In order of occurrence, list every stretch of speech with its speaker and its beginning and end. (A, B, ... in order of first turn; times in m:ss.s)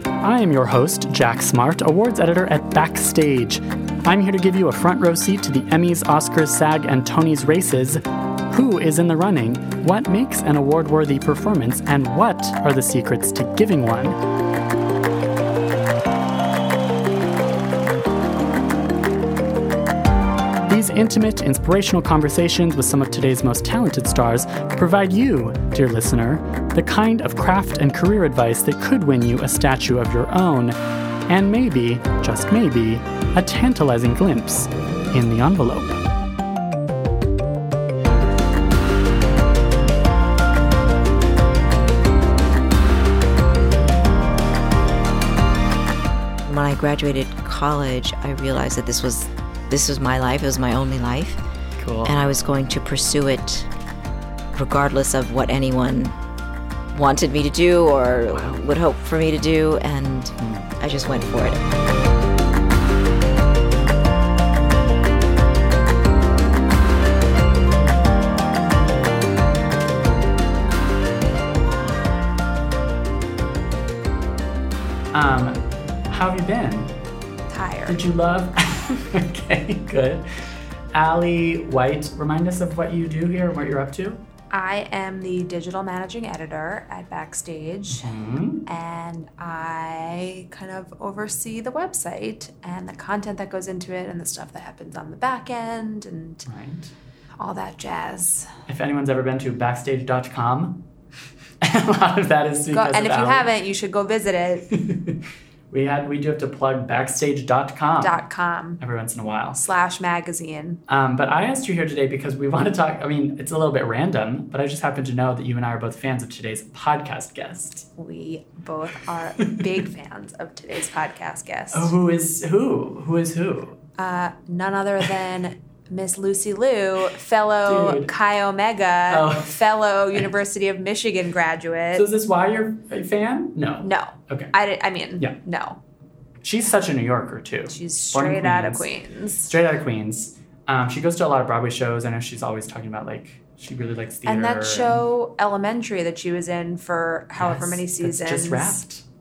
0:00.2-0:14.2 A
0:20.7-0:36.0 A
0:46.4-0:51.4 B
0:51.8-0:52.1 A
0:52.0-0:53.7 B
0:54.5-0:56.2 B
0:56.9-1:01.6 B
0:58.3-0:58.6 A
1:00.4-1:00.7 A
1:15.1-1:17.0 A
1:17.5-1:18.0 C
1:17.9-1:24.2 A
1:24.5-1:36.5 C
1:27.9-1:28.6 A
1:36.4-1:36.9 A
1:37.4-1:38.6 C
1:38.7-1:40.9 A
1:41.6-1:43.5 A
1:42.7-1:44.7 C
1:44.7-1:48.2 A
1:48.0-1:48.8 C
1:48.8-1:49.7 A
1:49.6-1:50.8 C
1:50.9-1:57.9 A
1:58.0-2:01.9 C
1:59.4-1:59.8 A
2:01.7-2:03.8 A
2:04.0-2:12.1 C
2:07.6-2:08.1 A
2:09.1-2:09.6 A
2:11.9-2:14.5 A
2:13.8-2:15.8 C
2:16.4-2:18.9 A
2:17.7-2:19.5 C
2:19.4-2:25.0 A
2:24.2-2:28.8 C
2:27.4-2:29.0 A